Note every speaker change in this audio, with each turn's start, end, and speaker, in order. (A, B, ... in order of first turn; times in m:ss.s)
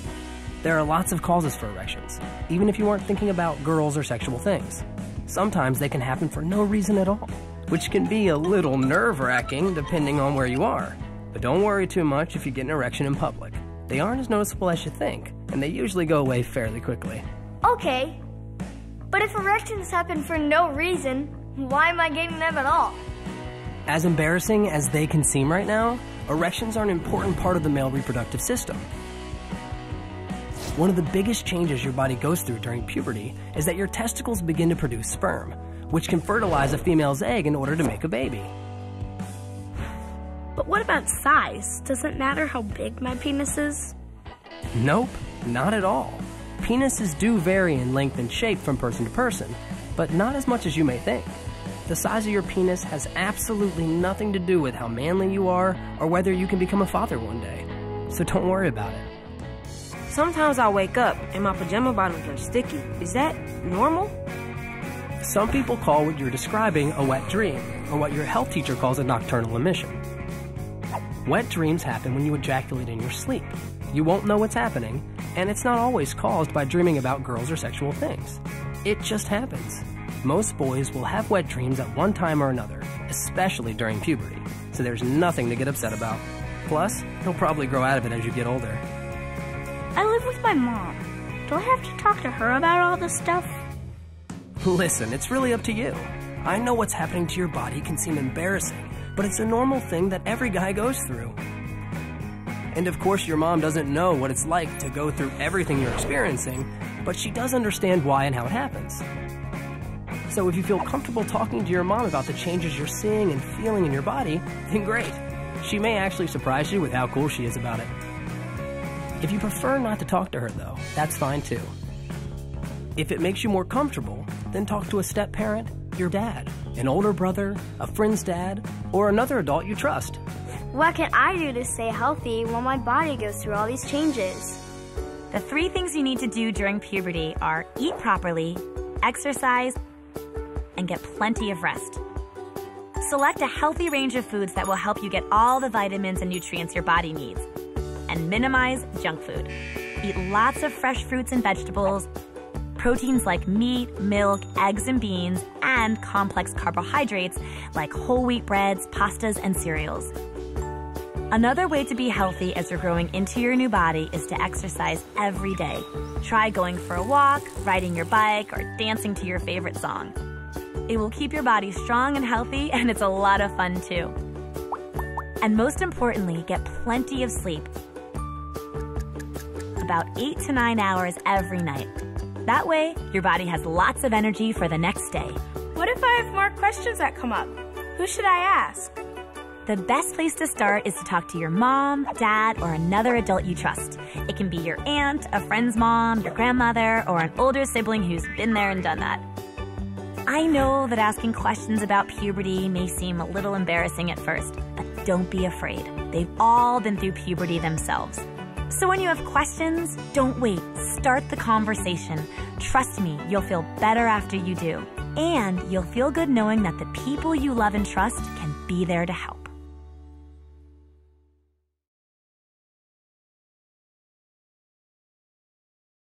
0:00.6-0:17.2 A
0:17.6-0:18.2 B
0:19.1-0:23.0 B
0:23.9-0:28.9 A
0:30.8-0:38.5 A
0:40.6-0:43.1 C
0:40.6-0:43.9 D
0:44.7-0:59.1 A
1:00.1-1:04.2 C
1:05.2-1:10.0 A
1:11.3-1:28.8 A
1:30.0-1:33.6 B
1:34.6-1:41.4 A
1:42.7-1:49.0 A
1:50.3-1:57.9 A
1:59.2-2:01.7 A
2:03.0-2:10.2 A
2:10.7-2:14.6 B
2:15.3-2:19.8 E
2:20.8-2:22.0 E
2:23.0-2:27.5 E
2:28.1-2:32.1 E
2:32.8-2:40.1 E
2:41.3-2:50.2 E
2:50.9-2:54.2 E
2:55.4-2:57.7 E
2:59.8-3:01.9 E
3:02.4-3:05.4 E
3:05.8-3:08.9 D
3:09.7-3:19.2 E
3:20.3-3:39.5 E